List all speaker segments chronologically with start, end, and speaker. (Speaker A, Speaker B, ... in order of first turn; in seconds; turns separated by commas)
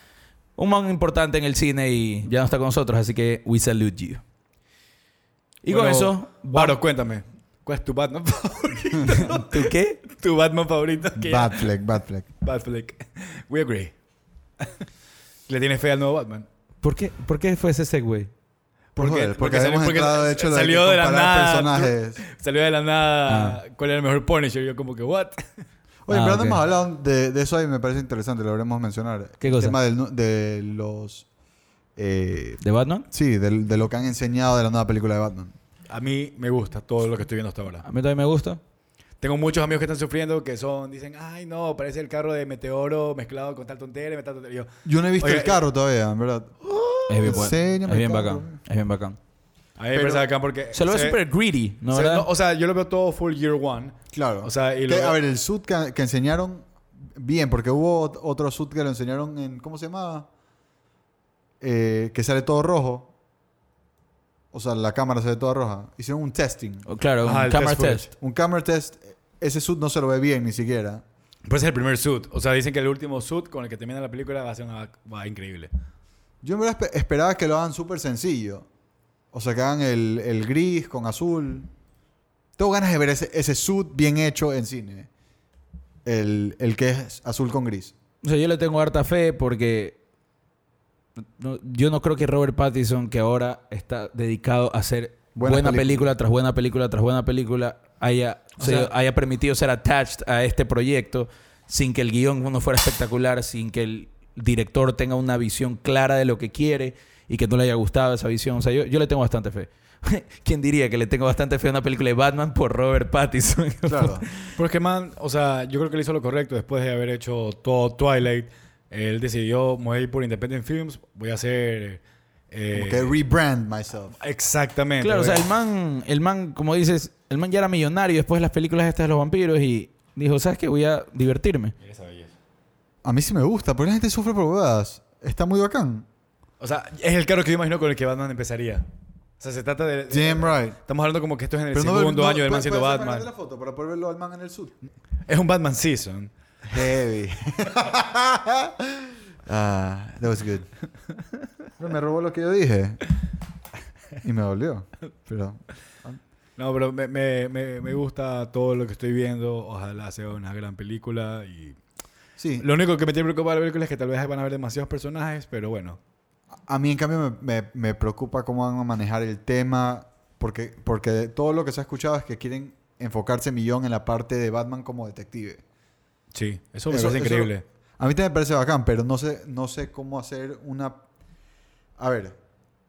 Speaker A: 0.6-4.2, Speaker A: 5.6-6.8, Speaker B: 5.7-11.8, Speaker A: 9.1-10.0, Speaker C: 11.2-12.3, Speaker B: 12.4-13.9, Speaker B: 14.6-14.8, Speaker B: 15.5-16.4, Speaker A: 16.8-18.3, Speaker B: 18.9-25.4, Speaker C: 19.0-22.2, Speaker A: 23.2-23.6, Speaker C: 26.1-31.3, Speaker A: 26.1-26.6, Speaker A: 29.4-29.8, Speaker C: 31.9-35.5, Speaker A: 32.6-33.1, Speaker B: 35.9-37.8, Speaker A: 37.8-38.6, Speaker B: 39.2-45.6, Speaker C: 44.8-46.6, Speaker B: 46.7-47.4, Speaker A: 47.1-49.2, Speaker C: 47.2-48.6, Speaker B: 49.8-51.2, Speaker C: 49.9-50.3, Speaker A: 50.7-52.2, Speaker B: 51.9-55.2, Speaker C: 54.1-60.3, Speaker C: 61.6-63.1, Speaker C: 64.5-66.8, Speaker A: 66.8-68.1, Speaker B: 67.2-68.1, Speaker C: 68.2-71.0, Speaker B: 71.4-75.7, Speaker C: 76.4-78.7, Speaker C: 79.3-81.7, Speaker C: 82.6-85.1, Speaker C: 86.0-87.9, Speaker A: 88.2-90.0, Speaker A: 91.3-114.5, Speaker C: 95.3-96.1, Speaker B: 98.6-98.9, Speaker C: 113.9-114.2, Speaker B: 114.5-123.2, Speaker C: 122.7-124.2, Speaker B: 124.2-125.5, Speaker A: 125.0-131.7, Speaker B: 131.8-132.3, Speaker C: 133.0-136.1, Speaker B: 136.6-138.9, Speaker B: 139.4-143.3, Speaker C: 140.1-140.8, Speaker C: 141.7-144.9, Speaker B: 145.3-146.3, Speaker C: 146.6-150.7, Speaker C: 151.8-153.0, Speaker C: 154.2-156.2, Speaker B: 156.6-161.8, Speaker C: 162.4-162.7, Speaker B: 162.6-166.0, Speaker C: 166.7-175.6, Speaker B: 176.3-177.6, Speaker C: 176.9-181.0, Speaker C: 182.0-182.3